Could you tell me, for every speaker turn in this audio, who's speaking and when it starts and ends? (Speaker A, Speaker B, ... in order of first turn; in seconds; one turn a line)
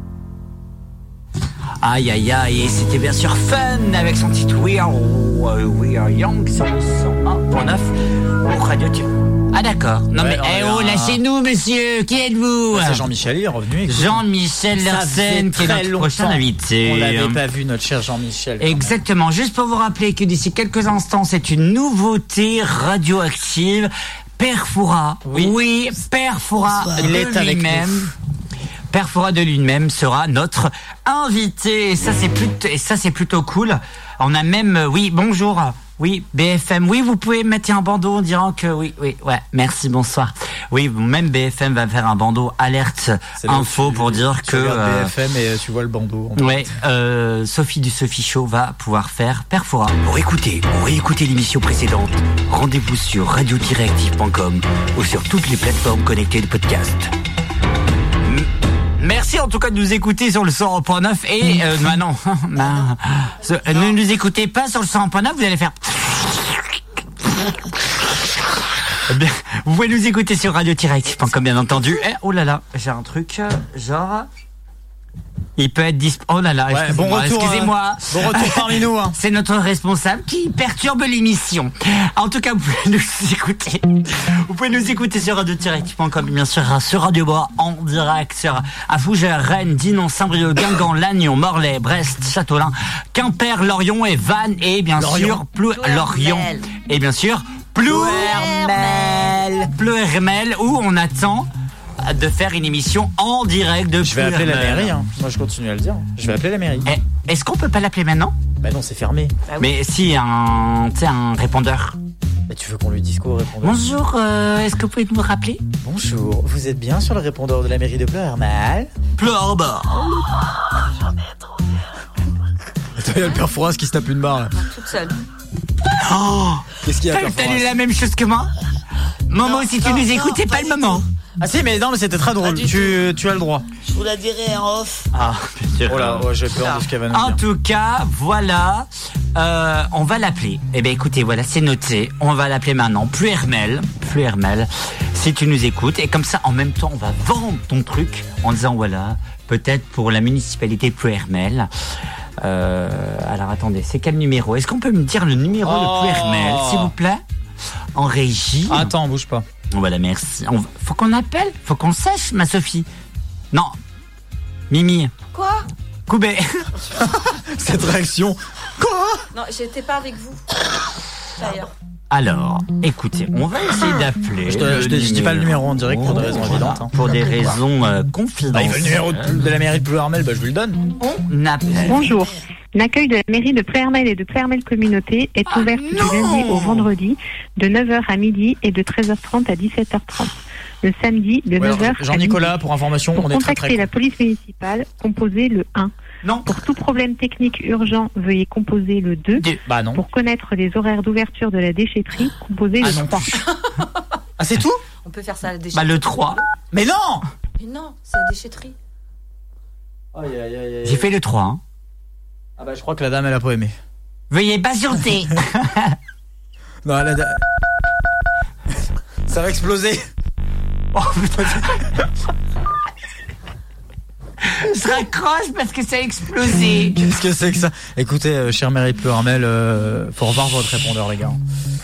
Speaker A: 1.8-13.0
Speaker B: 10.2-11.2
Speaker B: 12.7-14.2
Speaker A: 13.9-17.4
Speaker B: 14.8-18.9
Speaker A: 18.6-28.1
Speaker B: 25.2-25.5
Speaker C: 26.7-27.1
Speaker B: 27.0-28.1
Speaker A: 28.9-45.1
Speaker B: 43.4-46.6
Speaker A: 46.4-57.1
Speaker A: 58.2-66.8
Speaker A: 69.1-74.3
Speaker A: 75.6-101.5
Speaker B: 76.7-79.2
Speaker B: 95.0-95.4
Speaker D: 95.7-96.7
Speaker D: 97.9-99.5
Speaker A: 102.0-104.9
Speaker B: 104.0-106.9
Speaker A: 106.9-108.3
Speaker B: 108.6-109.3
Speaker A: 109.6-112.0
Speaker B: 112.5-113.8
Speaker A: 113.6-115.6
Speaker B: 115.8-118.9
Speaker A: 119.2-120.1
Speaker B: 123.0-124.6
Speaker D: 124.6-125.2
Speaker A: 126.0-128.5
Speaker B: 126.8-127.7
Speaker A: 129.3-131.0
Speaker C: 129.4-131.1
Speaker B: 131.4-133.7
Speaker C: 133.8-135.1
Speaker A: 135.1-151.7
Speaker B: 135.9-137.4
Speaker A: 152.4-157.2
Speaker B: 155.7-156.9
Speaker A: 157.9-158.9
Speaker B: 158.7-159.4
Speaker A: 159.7-162.9
Speaker A: 164.7-165.1
Speaker D: 165.3-165.7
Speaker A: 166.1-166.7
Speaker B: 167.2-169.2
Speaker D: 169.3-170.5
Speaker D: 171.4-171.7
Speaker A: 172.1-179.3
Speaker B: 174.5-177.0
Speaker B: 178.5-180.8
Speaker A: 181.0-182.2
Speaker C: 181.8-182.4
Speaker E: 181.9-192.6
Speaker A: 185.5-186.9
Speaker B: 191.6-193.9
Speaker E: 193.2-195.9
Speaker A: 196.2-196.5
Speaker E: 196.5-203.3
Speaker B: 199.7-200.0
Speaker B: 202.8-203.3
Speaker D: 203.3-203.9
Speaker B: 204.4-204.8
Speaker D: 205.0-206.4
Speaker A: 205.7-206.4
Speaker B: 206.7-207.3
Speaker D: 207.6-208.8
Speaker B: 210.1-211.1
Speaker A: 210.8-211.6
Speaker B: 212.6-213.8
Speaker A: 214.3-215.9
Speaker B: 216.8-217.4
Speaker B: 219.3-220.1
Speaker A: 220.9-221.9
Speaker A: 224.4-227.0
Speaker B: 227.0-231.4